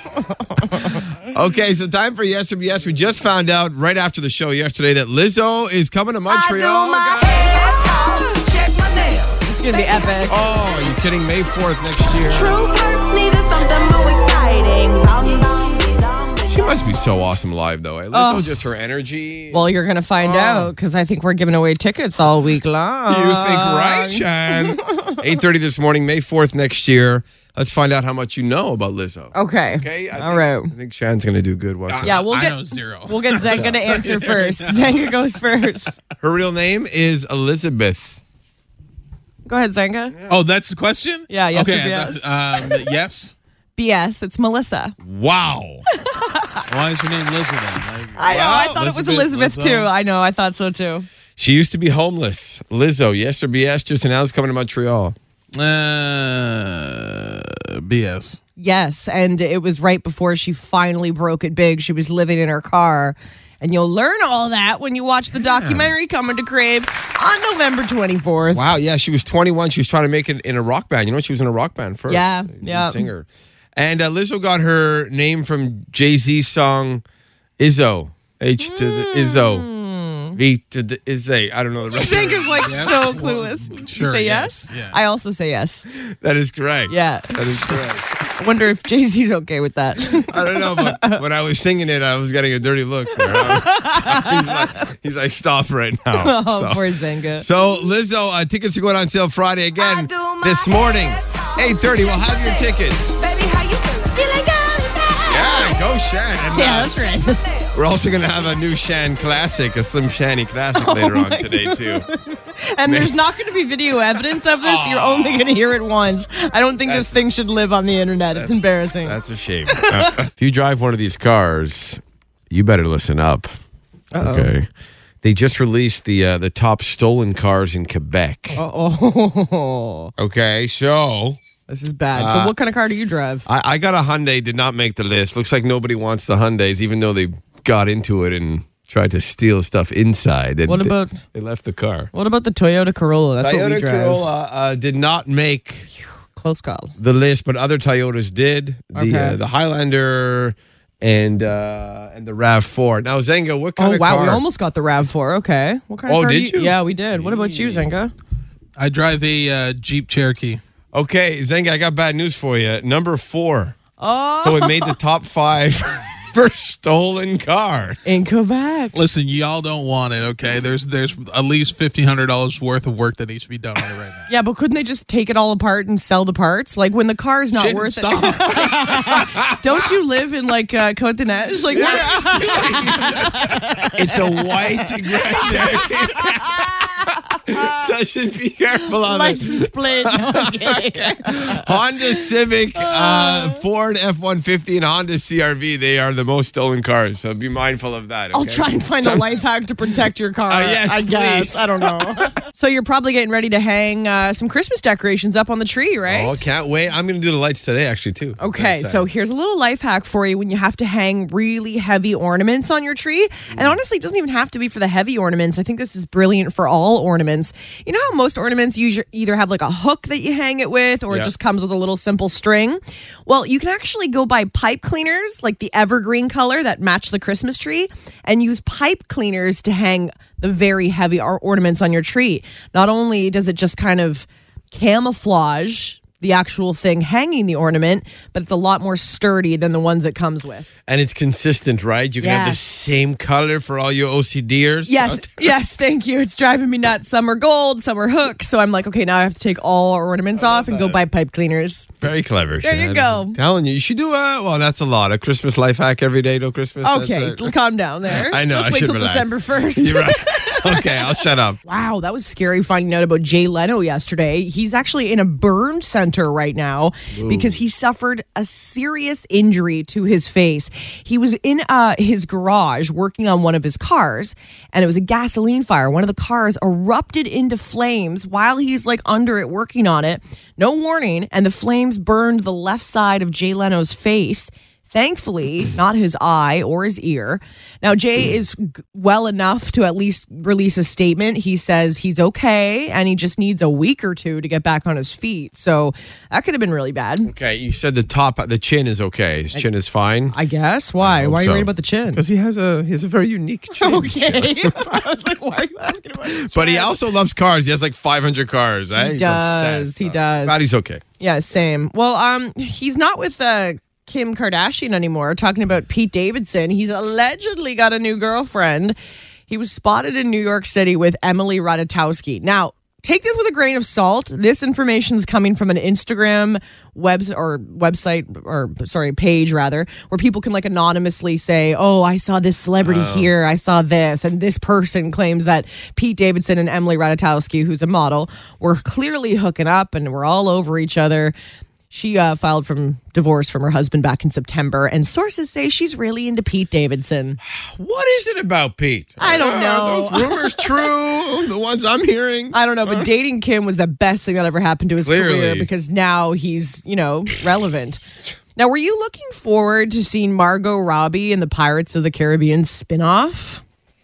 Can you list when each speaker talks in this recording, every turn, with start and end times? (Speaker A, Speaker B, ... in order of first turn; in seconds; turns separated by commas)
Speaker A: 0.2-1.1, Speaker B: 1.3-7.4, Speaker A: 6.3-10.5, Speaker B: 10.3-12.6, Speaker A: 12.3-16.7, Speaker B: 16.5-19.7, Speaker A: 18.1-18.5, Speaker A: 19.5-25.2, Speaker B: 20.2-20.7, Speaker B: 23.1-32.1, Speaker A: 29.3-30.7, Speaker C: 31.9-35.1, Speaker A: 32.0-35.9, Speaker B: 33.4-33.8, Speaker B: 36.2-38.2, Speaker A: 39.4-40.1, Speaker B: 40.1-40.4, Speaker C: 40.3-43.3, Speaker A: 41.3-42.8, Speaker A: 43.8-45.0, Speaker B: 45.0-45.8, Speaker A: 46.0-46.6, Speaker C: 46.7-49.9, Speaker A: 48.1-51.1, Speaker B: 48.2-48.8, Speaker B: 51.4-55.1, Speaker C: 55.5-57.3, Speaker C: 57.8-58.4, Speaker A: 58.6-68.7, Speaker B: 65.3-65.9, Speaker B: 68.4-77.0, Speaker A: 72.1-73.0, Speaker B: 77.6-79.7, Speaker A: 78.6-80.4, Speaker B: 80.3-82.9, Speaker A: 81.9-85.8, Speaker C: 82.6-85.0, Speaker B: 86.1-88.0, Speaker A: 86.9-91.2, Speaker B: 90.3-96.8, Speaker A: 93.1-94.5, Speaker A: 96.1-97.5, Speaker B: 97.4-103.2, Speaker A: 99.8-102.7, Speaker A: 103.2-105.8, Speaker B: 105.2-107.0, Speaker A: 106.5-107.7, Speaker B: 107.7-112.0, Speaker A: 110.7-119.2, Speaker B: 112.8-113.2, Speaker B: 114.6-115.4, Speaker B: 116.8-117.2, Speaker B: 118.3-123.5, Speaker A: 119.7-120.1, Speaker A: 124.1-124.5, Speaker B: 124.2-124.7, Speaker B: 125.2-128.6, Speaker A: 128.5-130.1, Speaker B: 130.2-131.4, Speaker A: 131.7-133.4, Speaker B: 132.1-132.5, Speaker B: 133.4-142.1, Speaker A: 140.7-141.2, Speaker A: 142.1-144.3, Speaker B: 143.4-145.9, Speaker A: 146.3-146.9, Speaker B: 147.0-154.4, Speaker A: 148.9-149.4, Speaker A: 153.8-158.1, Speaker B: 156.1-157.9, Speaker C: 158.8-160.6, Speaker B: 160.9-163.8, Speaker A: 164.0-164.9, Speaker B: 164.4-168.0, Speaker A: 168.0-168.9, Speaker C: 168.9-174.2, Speaker A: 174.3-183.9, Speaker C: 177.5-178.9, Speaker B: 181.7-183.3, Speaker C: 181.8-183.1, Speaker B: 183.9-186.9, Speaker A: 185.2-186.2, Speaker B: 187.5-199.4, Speaker A: 189.0-192.2, Speaker A: 192.7-193.6, Speaker A: 198.3-206.5, Speaker B: 200.5-202.3, Speaker B: 206.0-209.1, Speaker A: 208.4-240.7, Speaker B: 213.5-213.8, Speaker B: 240.9-245.5, Speaker A: 242.2-242.6, Speaker A: 244.8-251.9, Speaker B: 250.3-251.0, Speaker B: 252.0-257.6, Speaker A: 252.6-253.4, Speaker A: 256.8-297.3, Speaker B: 258.1-261.6, Speaker B: 267.1-267.6, Speaker B: 297.2-300.4, Speaker A: 300.3-302.2, Speaker B: 301.0-305.0, Speaker A: 303.8-306.9, Speaker B: 306.2-311.0, Speaker A: 309.0-310.6, Speaker A: 311.2-341.3, Speaker B: 332.8-333.3, Speaker A: 341.9-347.4, Speaker B: 347.4-353.1, Speaker A: 349.2-350.7, Speaker A: 352.5-358.0, Speaker B: 355.0-355.7, Speaker A: 358.5-363.6